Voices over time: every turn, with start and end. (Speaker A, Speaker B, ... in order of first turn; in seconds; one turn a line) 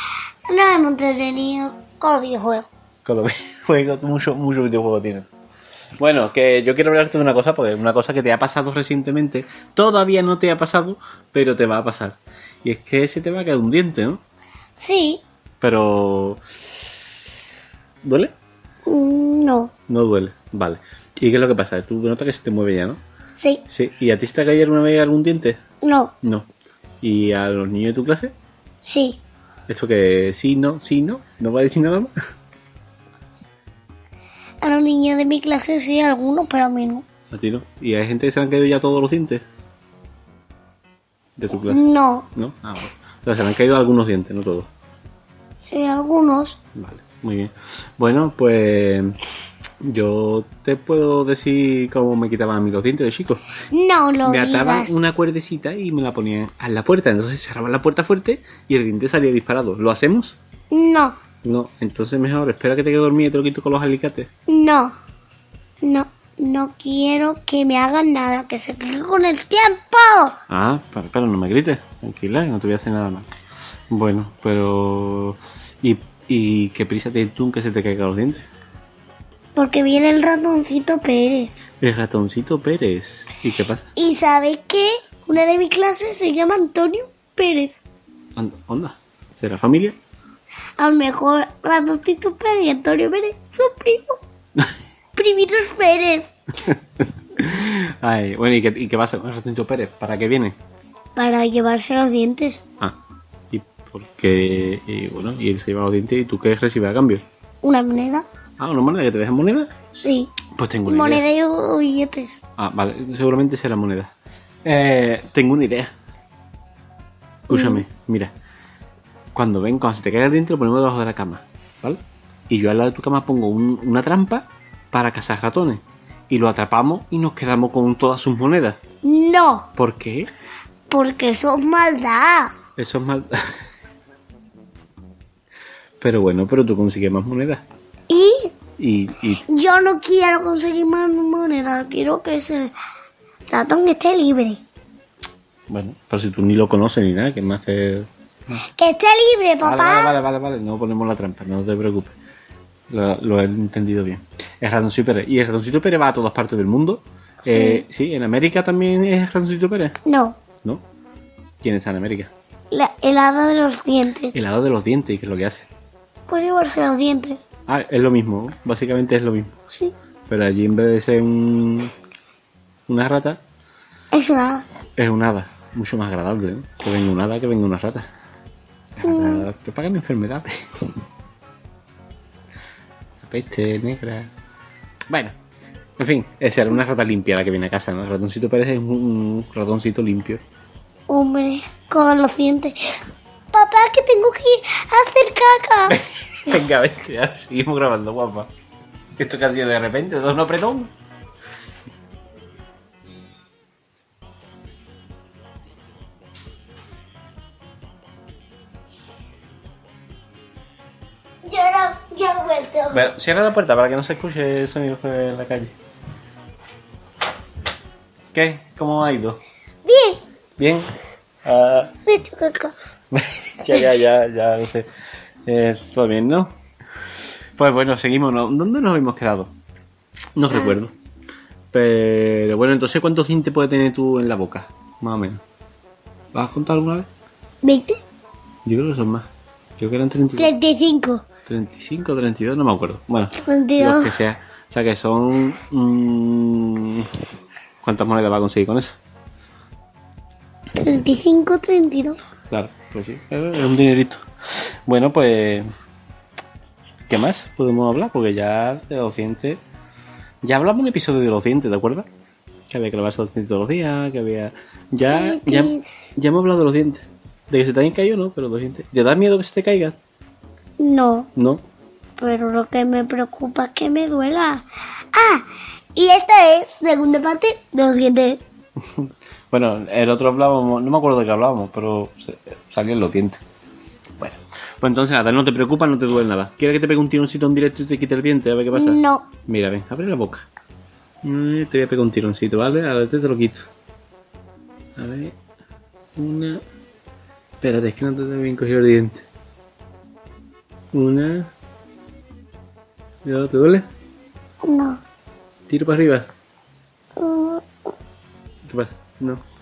Speaker A: 0.5-2.7
Speaker B: 3.0-5.3
Speaker B: 6.0-14.2
Speaker A: 14.8-15.2
Speaker B: 15.6-16.4
Speaker B: 18.0-18.3
Speaker A: 18.9-19.7
Speaker B: 19.9-23.0
Speaker B: 23.7-25.6
Speaker A: 25.8-26.1
Speaker B: 27.0-28.3
Speaker A: 28.8-29.2
Speaker B: 29.7-32.1
Speaker A: 34.6-37.0
Speaker B: 37.3-39.4
Speaker B: 41.4-44.7
Speaker A: 41.6-42.3
Speaker A: 45.6-46.6
Speaker B: 46.7-49.1
Speaker B: 49.8-53.4
Speaker A: 53.7-55.0
Speaker B: 54.2-60.4
Speaker A: 60.7-61.1
Speaker B: 61.4-64.3
Speaker A: 64.5-64.9
Speaker A: 65.8-70.4
Speaker B: 70.5-73.3
Speaker B: 73.9-78.5
Speaker A: 79.5-81.5
Speaker B: 81.8-83.9
Speaker A: 84.0-87.7
Speaker B: 88.3-90.0
Speaker A: 90.8-94.2
Speaker A: 95.2-96.3
Speaker B: 97.3-100.5
Speaker A: 101.2-102.6
Speaker B: 103.5-107.2
Speaker A: 107.6-108.2
Speaker B: 108.6-109.8
Speaker A: 109.9-110.3
Speaker B: 110.5-111.2
Speaker A: 110.9-112.3
Speaker B: 112.6-114.1
Speaker B: 114.6-115.9
Speaker B: 117.5-118.3
Speaker A: 117.5-117.8
Speaker B: 119.3-128.8
Speaker A: 129.0-129.7
Speaker B: 129.8-130.3
Speaker A: 130.9-132.5
Speaker B: 132.8-133.4
Speaker B: 136.0-137.6
Speaker A: 138.1-138.5
Speaker B: 138.8-139.4
Speaker A: 139.5-142.7
Speaker A: 143.5-144.6
Speaker B: 145.7-148.6
Speaker A: 148.7-150.2
Speaker B: 149.6-152.1
Speaker B: 152.9-160.0
Speaker A: 157.4-157.8
Speaker A: 160.1-160.4
Speaker B: 161.6-162.3
Speaker A: 162.7-164.3
Speaker B: 164.3-165.7
Speaker A: 166.3-167.4
Speaker B: 167.7-169.5
Speaker B: 170.3-171.9
Speaker B: 172.9-173.4
Speaker A: 174.1-174.6
Speaker B: 174.9-178.1
Speaker B: 178.9-180.6
Speaker A: 179.0-179.4
Speaker B: 183.2-184.3
Speaker B: 185.1-185.3
Speaker B: 186.0-190.4
Speaker A: 191.1-192.9
Speaker A: 193.5-196.0
Speaker B: 195.9-198.5
Speaker B: 199.2-200.9
Speaker A: 211.4-213.1
Speaker B: 212.9-215.7
Speaker B: 218.3-219.4
Speaker A: 219.8-220.2
Speaker B: 220.6-220.9
Speaker B: 221.4-221.9
Speaker A: 222.1-222.7
Speaker B: 223.1-224.9
Speaker B: 225.4-226.5
Speaker B: 227.6-229.5
Speaker B: 230.3-230.9
Speaker A: 230.5-230.8
Speaker B: 231.7-235.4
Speaker B: 236.3-237.1
Speaker A: 237.6-238.0
Speaker B: 238.6-240.5
Speaker A: 240.3-241.2
Speaker B: 241.5-247.1
Speaker A: 243.4-244.2
Speaker B: 247.8-249.0
Speaker A: 250.8-252.2
Speaker B: 252.5-254.2
Speaker B: 254.9-255.7
Speaker B: 257.1-259.6
Speaker B: 260.4-262.1
Speaker B: 262.7-269.9
Speaker A: 265.0-265.9
Speaker A: 270.8-271.3
Speaker B: 271.3-271.6
Speaker A: 272.2-278.4
Speaker B: 278.9-283.4
Speaker B: 284.2-290.4
Speaker A: 288.7-289.3
Speaker B: 291.2-293.6
Speaker B: 295.0-295.4
Speaker B: 296.2-296.6
Speaker B: 297.6-299.2
Speaker B: 300.9-301.5
Speaker B: 303.2-303.9
Speaker A: 304.6-305.0
Speaker B: 305.7-306.3
Speaker A: 307.2-307.7
Speaker B: 308.6-309.4